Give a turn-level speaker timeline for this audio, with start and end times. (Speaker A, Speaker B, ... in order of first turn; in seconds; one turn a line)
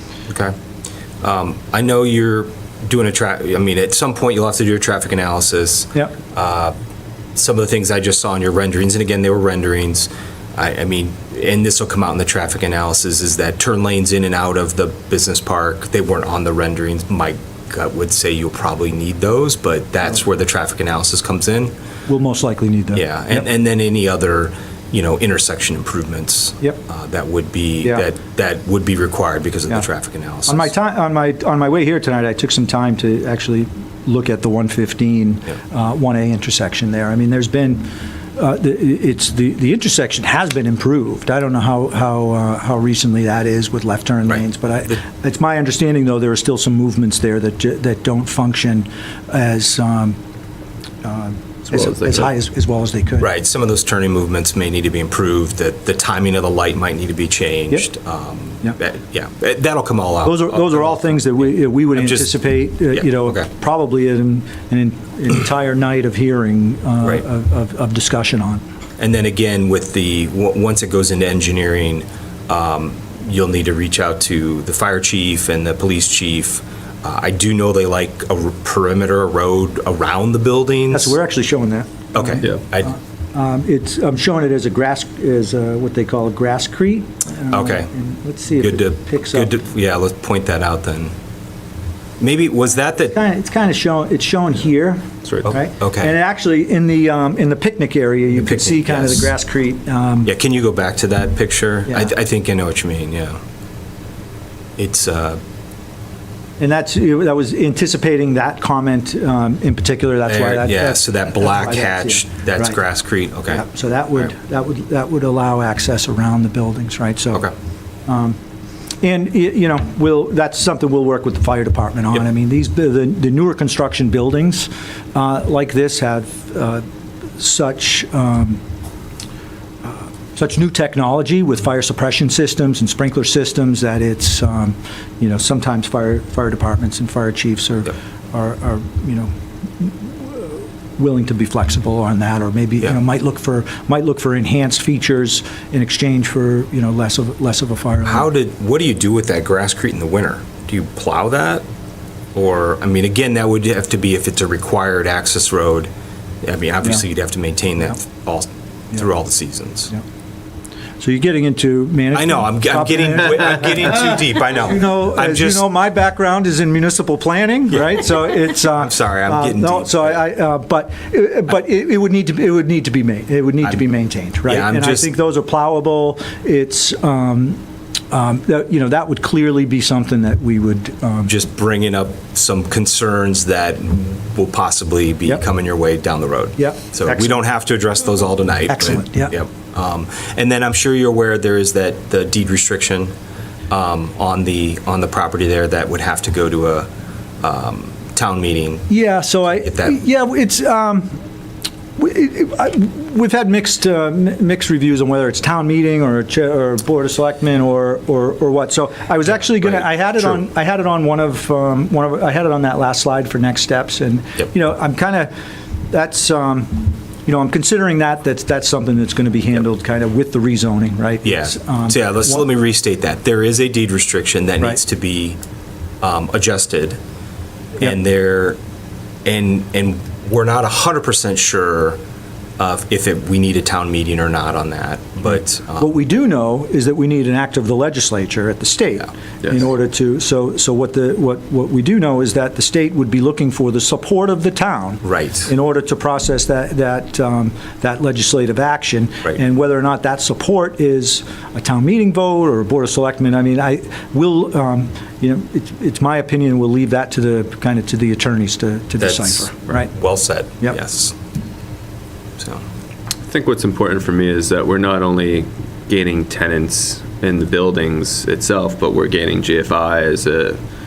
Speaker A: 0.3-0.5
Speaker A: 1.2-6.7
Speaker A: 7.3-21.7
Speaker B: 22.1-23.0
Speaker A: 22.9-30.7
Speaker B: 30.5-50.2
Speaker B: 51.0-53.3
Speaker C: 51.7-52.3
Speaker A: 53.2-61.1
Speaker B: 60.2-68.6
Speaker A: 61.9-62.4
Speaker A: 62.9-63.5
Speaker A: 69.0-81.2
Speaker B: 80.9-89.5
Speaker A: 82.1-83.0
Speaker A: 87.5-87.9
Speaker A: 88.6-91.1
Speaker A: 92.2-93.2
Speaker B: 93.1-100.3
Speaker A: 95.5-96.1
Speaker A: 98.3-99.3
Speaker A: 100.2-103.4
Speaker A: 104.8-105.4
Speaker B: 106.6-112.8
Speaker A: 110.3-113.6
Speaker B: 113.5-117.5
Speaker B: 118.1-118.4
Speaker B: 119.0-126.8
Speaker B: 127.4-128.6
Speaker B: 129.8-148.3
Speaker A: 148.1-151.6
Speaker A: 152.3-155.9
Speaker A: 156.4-159.9
Speaker B: 161.0-181.3
Speaker A: 162.1-165.7
Speaker A: 167.9-170.2
Speaker A: 174.5-175.1
Speaker A: 181.3-193.1
Speaker B: 186.6-187.4
Speaker B: 188.7-189.3
Speaker A: 193.7-196.9
Speaker A: 197.4-198.9
Speaker B: 198.9-201.2
Speaker A: 199.6-199.9
Speaker B: 202.0-215.3
Speaker B: 215.9-222.4
Speaker A: 221.2-225.4
Speaker A: 226.0-227.0
Speaker A: 227.8-228.6
Speaker A: 229.2-232.0
Speaker A: 232.6-235.9
Speaker B: 235.8-259.9
Speaker A: 245.0-245.5
Speaker A: 259.0-261.1
Speaker C: 263.3-270.6